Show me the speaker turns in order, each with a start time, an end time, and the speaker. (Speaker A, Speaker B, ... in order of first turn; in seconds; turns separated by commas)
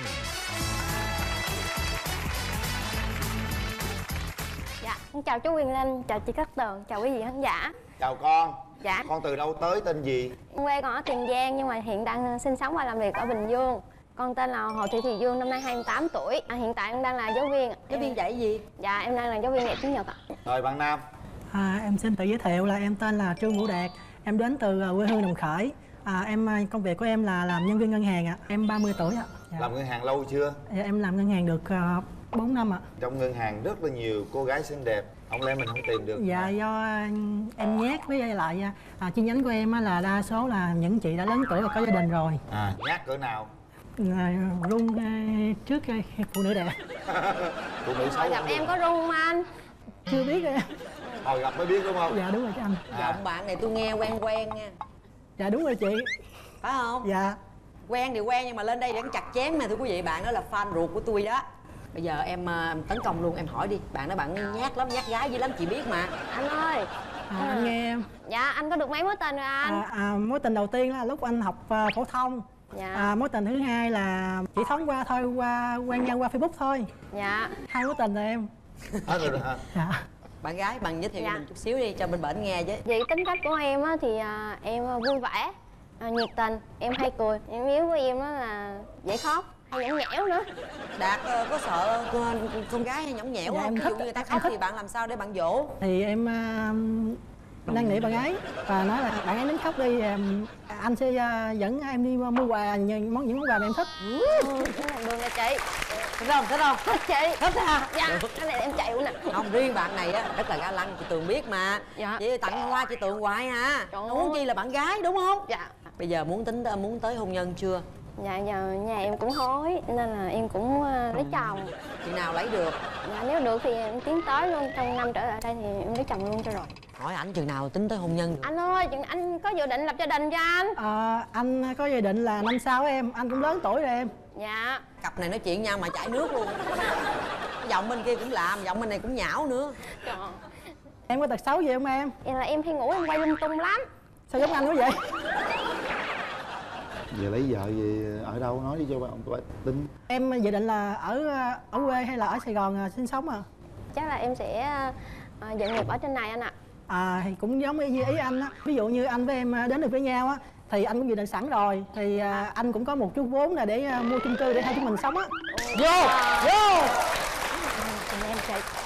Speaker A: 4.8-7.8, Speaker B: 8.0-10.3, Speaker A: 8.8-9.1, Speaker A: 10.5-18.2, Speaker C: 17.9-18.6, Speaker A: 18.8-20.2, Speaker B: 20.5-21.0, Speaker D: 21.5-29.7, Speaker B: 29.6-30.6, Speaker D: 30.7-32.8, Speaker B: 33.0-36.5, Speaker D: 36.2-42.4, Speaker B: 42.5-43.5, Speaker D: 44.0-46.8, Speaker B: 47.1-48.8, Speaker A: 48.0-49.5, Speaker D: 50.1-50.7, Speaker B: 51.2-52.2, Speaker D: 52.1-52.9, Speaker C: 52.9-54.8, Speaker B: 52.9-53.2, Speaker D: 55.4-56.1, Speaker C: 56.6-57.1, Speaker D: 57.0-57.4, Speaker C: 57.9-66.1, Speaker A: 66.3-69.8, Speaker D: 67.3-68.1, Speaker D: 69.6-76.9, Speaker A: 72.7-73.1, Speaker A: 77.1-77.5, Speaker D: 77.7-78.5, Speaker B: 79.1-79.6, Speaker D: 79.7-80.0, Speaker C: 80.4-82.8, Speaker A: 81.2-81.4, Speaker A: 82.9-90.5, Speaker C: 91.0-95.8, Speaker D: 93.5-94.5, Speaker D: 95.8-103.9, Speaker C: 97.7-98.2, Speaker A: 104.0-105.6, Speaker C: 104.3-105.4, Speaker C: 106.2-108.3, Speaker A: 106.9-107.4, Speaker A: 107.9-109.3, Speaker C: 109.3-117.8, Speaker A: 112.0-112.2, Speaker A: 113.9-114.4, Speaker A: 115.5-115.9, Speaker A: 118.2-121.7, Speaker C: 121.1-121.5, Speaker C: 122.0-122.8, Speaker A: 123.0-126.7, Speaker C: 127.0-128.5, Speaker A: 128.4-130.8, Speaker D: 130.8-134.1, Speaker A: 134.3-134.8, Speaker C: 135.0-137.1, Speaker C: 137.6-139.8, Speaker A: 140.0-140.4, Speaker D: 141.1-142.1, Speaker A: 142.2-143.9, Speaker D: 144.3-145.0, Speaker B: 147.1-149.9, Speaker D: 150.1-153.4, Speaker A: 153.9-156.6, Speaker D: 156.9-165.3, Speaker A: 165.5-166.6, Speaker C: 165.7-167.0, Speaker A: 167.5-168.6